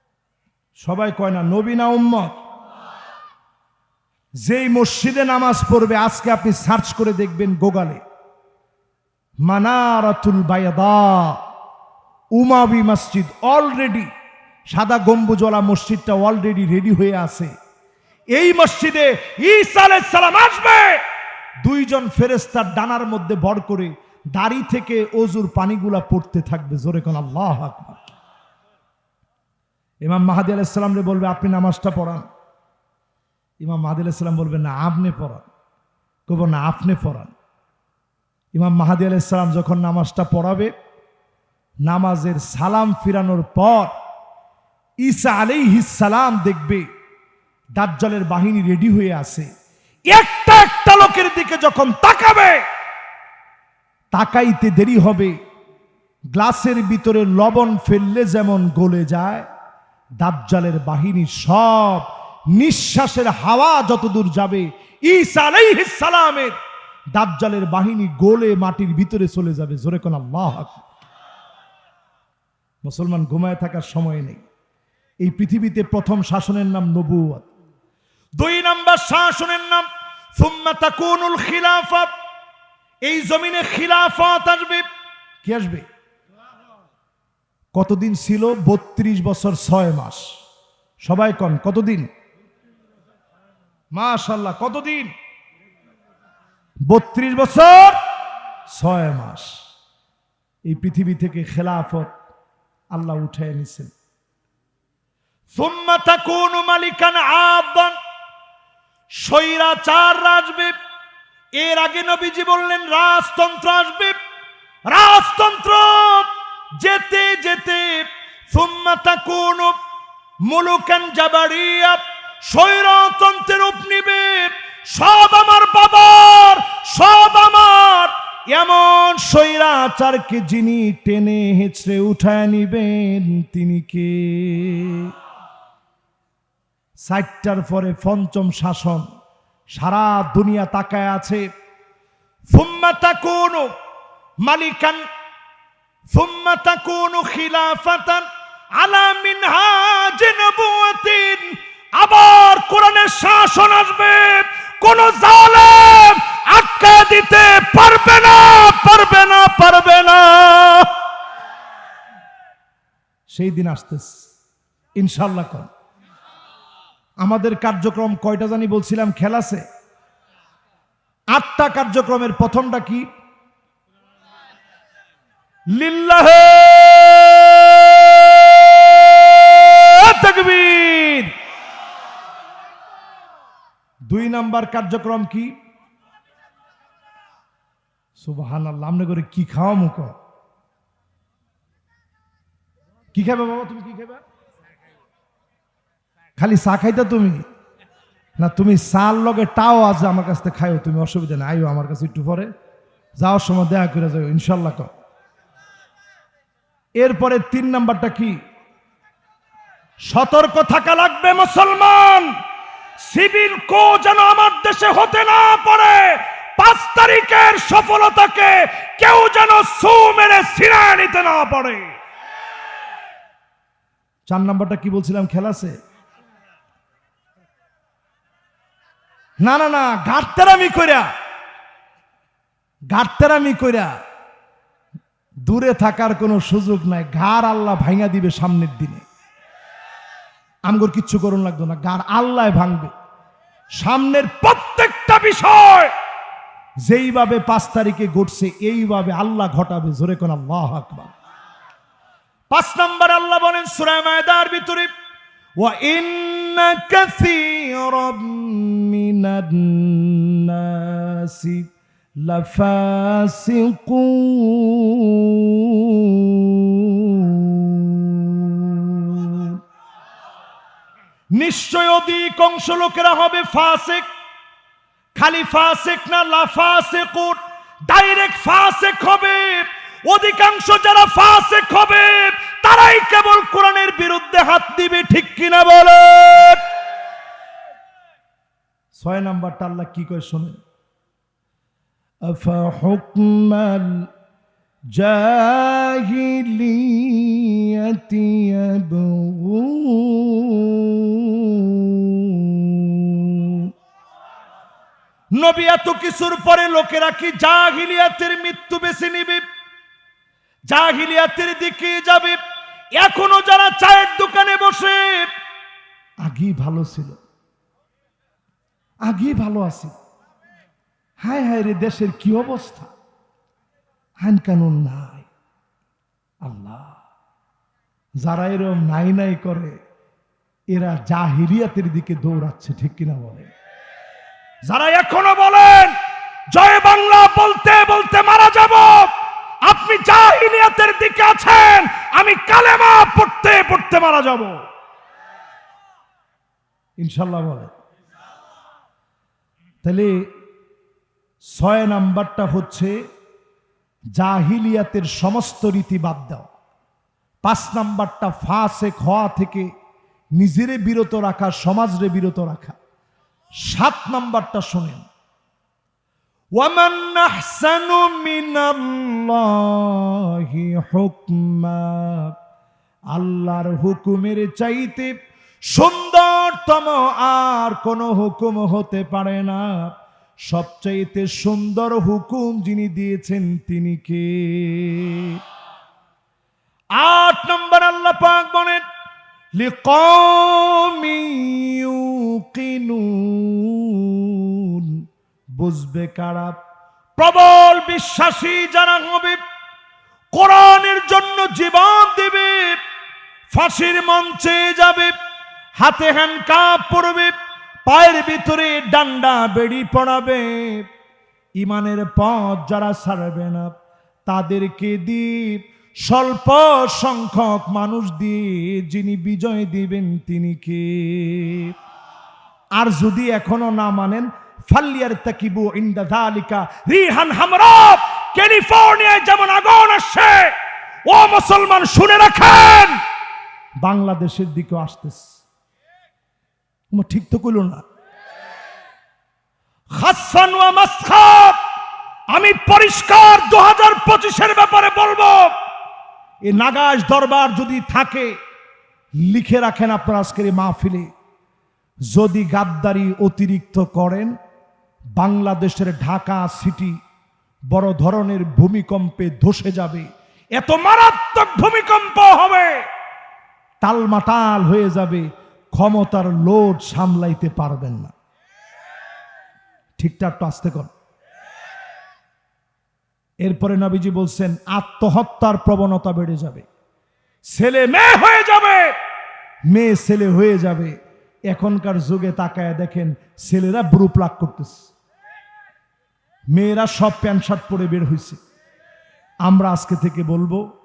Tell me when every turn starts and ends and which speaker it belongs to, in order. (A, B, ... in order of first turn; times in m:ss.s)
0:00.8-0:02.4 A
0:04.4-0:08.0 A
0:09.4-0:11.4 A
0:12.4-0:14.1 A
0:14.7-0:17.5 A
0:18.3-0:21.0 A
0:21.6-0:28.0 A
0:30.0-0:32.2 A
0:33.6-0:35.5 A
0:36.3-0:37.3 A
0:38.5-0:40.7 A
0:41.8-0:43.9 A
0:45.0-0:46.8 A
0:47.7-0:49.5 A
0:50.1-0:52.6 A
0:54.1-0:55.3 A
0:56.3-0:59.5 A
1:00.2-1:06.6 A
1:07.1-1:10.8 A
1:12.8-1:14.4 A
1:15.2-1:17.5 A
1:18.4-1:22.1 A
1:23.0-1:24.8 A
1:25.4-1:25.8 A
1:27.7-1:30.3 A
1:31.0-1:32.1 A
1:33.9-1:35.1 A
1:36.9-1:38.0 A
1:38.7-1:39.6 A
1:40.6-1:42.1 A
1:42.9-1:43.9 A
1:45.5-1:48.0 A
1:49.2-1:50.7 A
1:51.6-1:54.2 A
1:54.9-1:59.8 A
2:00.5-2:15.1 A
2:17.0-2:19.1 A
2:19.7-2:21.4 A
2:22.5-2:23.7 A
2:24.4-2:25.0 A
2:26.1-2:28.3 A
2:28.8-2:40.9 A
2:43.3-2:44.1 A
2:45.0-2:45.7 A
2:47.2-2:49.6 A
2:51.3-2:53.1 A
2:55.7-3:01.3 A
3:04.1-3:05.5 A
3:08.2-3:10.1 A
3:13.1-3:14.2 A
3:16.4-3:17.4 A
3:18.4-3:22.5 A
3:23.2-3:24.9 A
3:27.0-3:28.4 A
3:30.1-3:32.3 A
3:33.0-3:41.9 A
3:44.3-3:45.7 A
3:49.4-3:51.1 A
3:52.9-3:53.9 A
3:55.5-3:59.0 A
4:00.7-4:02.9 A
4:03.8-4:05.9 A
4:06.8-4:11.1 A
4:12.5-4:14.9 A
4:15.6-4:21.7 A
4:22.2-4:29.6 A
4:31.3-4:34.1 A
4:35.2-4:46.6 A
4:48.9-4:50.6 A
4:52.3-4:54.1 A
4:54.9-5:03.7 A
5:05.3-5:09.4 A
5:10.7-5:12.4 A
5:13.0-5:15.3 A
5:16.2-5:17.2 A
5:19.1-5:19.9 A
5:21.2-5:22.9 A
5:24.2-5:25.3 A
5:26.4-5:27.0 A
5:28.2-5:29.7 A
5:30.7-5:33.5 A
5:34.7-5:35.9 A
5:36.5-5:39.1 A
5:39.6-5:44.6 A
5:47.0-5:47.7 A
5:49.8-5:50.1 A
5:51.6-5:52.9 A
5:54.2-5:56.5 A
5:57.4-5:59.7 A
6:00.4-6:02.8 A
6:03.6-6:05.0 A
6:06.6-6:12.3 A
6:13.1-6:15.1 A
6:15.7-6:19.9 A
6:20.5-6:25.4 A
6:27.0-6:28.8 A
6:29.6-6:35.0 A
6:35.6-6:36.6 A
6:37.2-6:39.4 A
6:40.3-6:42.8 A
6:43.5-6:45.1 A
6:45.8-6:47.3 A
6:47.9-6:50.9 A
6:51.6-6:53.7 A
6:54.3-7:01.7 A
7:02.8-7:10.5 A
7:11.1-7:13.0 A
7:13.8-7:15.3 A
7:16.9-7:17.8 A
7:20.0-7:21.6 A
7:22.3-7:25.5 A
7:26.4-7:28.3 A
7:29.2-7:31.1 A
7:32.1-7:34.3 A
7:35.2-7:36.9 A
7:37.7-7:40.0 A
7:40.6-7:42.8 A
7:43.8-7:48.1 A
7:50.0-7:50.9 A
7:53.4-7:56.7 A
7:57.5-7:59.0 A
7:59.7-8:00.9 A
8:01.5-8:04.8 A
8:06.5-8:08.4 A
8:09.4-8:10.6 A